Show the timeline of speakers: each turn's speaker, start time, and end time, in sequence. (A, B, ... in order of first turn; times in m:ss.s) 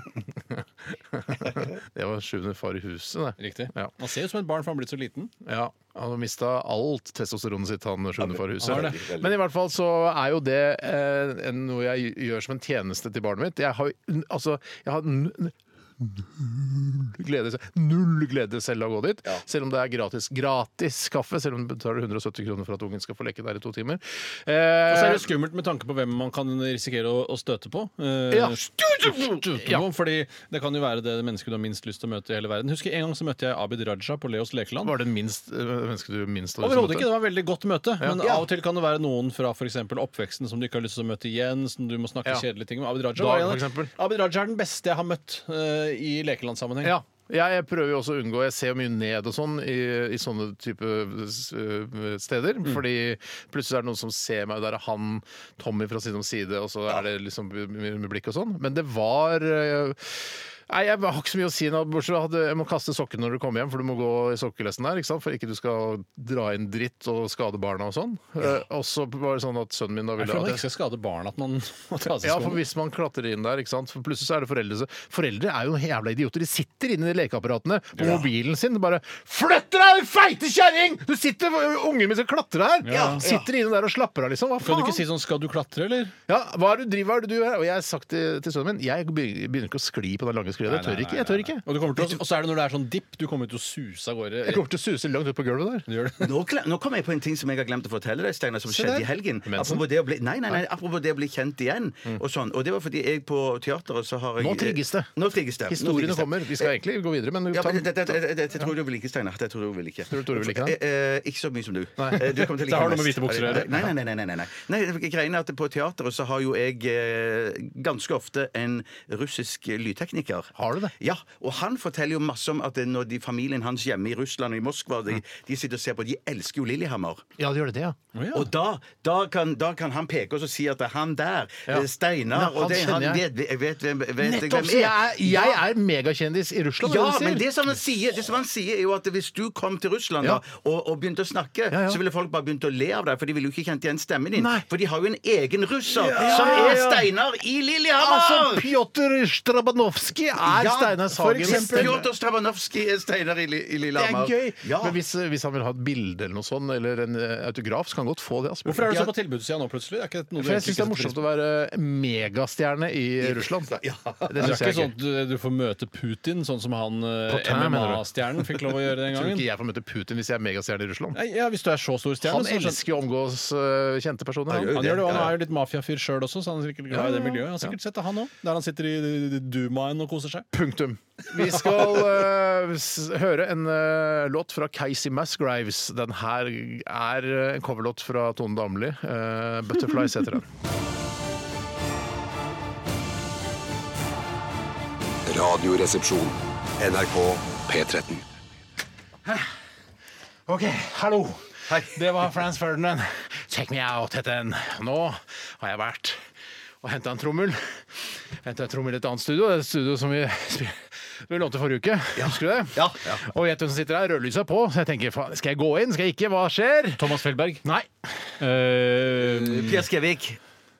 0:00.5-0:03.9 A
0:03.4-0:05.3 B
0:05.4-0:25.3 A
0:08.2-0:09.3 C
0:08.6-0:09.0 B
0:24.9-0:34.9 B
0:28.3-0:29.9 A
0:34.8-0:37.1 A
0:36.6-0:47.0 B
0:38.2-0:38.5 C
0:43.1-0:43.9 A
0:46.8-1:10.6 A
1:10.2-1:12.6 B
1:12.1-1:25.1 A
1:22.8-1:23.2 B
1:22.9-1:23.5 C
1:24.6-1:26.1 B
1:26.3-1:32.2 A
1:30.7-1:34.6 B
1:34.4-1:35.9 A
1:35.9-1:36.3 B
1:36.2-1:46.7 C
1:38.7-1:39.8 A
1:44.4-1:45.1 A
1:45.7-1:48.2 A
1:47.5-2:07.3 C
1:50.1-1:50.8 A
1:52.0-1:52.3 A
1:52.2-1:53.9 B
2:00.6-2:00.9 A
2:07.4-2:08.0 A
2:08.2-2:08.5 B
2:08.3-2:15.6 C
2:11.7-2:13.2 A
2:14.2-2:17.5 A
2:16.8-2:28.7 C
2:21.7-2:22.0 A
2:24.4-2:24.6 A
2:26.0-2:27.0 A
2:26.1-2:27.0 B
2:28.0-2:32.1 A
2:30.4-2:35.0 C
2:31.2-2:32.0 B
2:34.0-2:39.1 A
2:38.6-2:41.2 B
2:40.4-2:44.9 A
2:43.2-2:44.4 C
2:44.4-2:49.4 B
2:47.3-2:48.1 A
2:49.1-2:51.2 A
2:51.1-2:52.8 B
2:52.2-2:54.9 A
2:54.5-2:55.4 C
2:54.7-3:00.5 B
2:56.9-2:57.7 A
3:00.5-3:10.5 A
3:15.3-3:18.2 D
3:20.5-3:26.2 A
3:21.7-3:22.0 C
3:26.8-3:37.1 A
3:32.2-3:33.2 C
3:37.0-3:37.6 B
3:37.6-3:38.1 A
3:38.4-3:39.8 B
3:39.2-3:40.4 C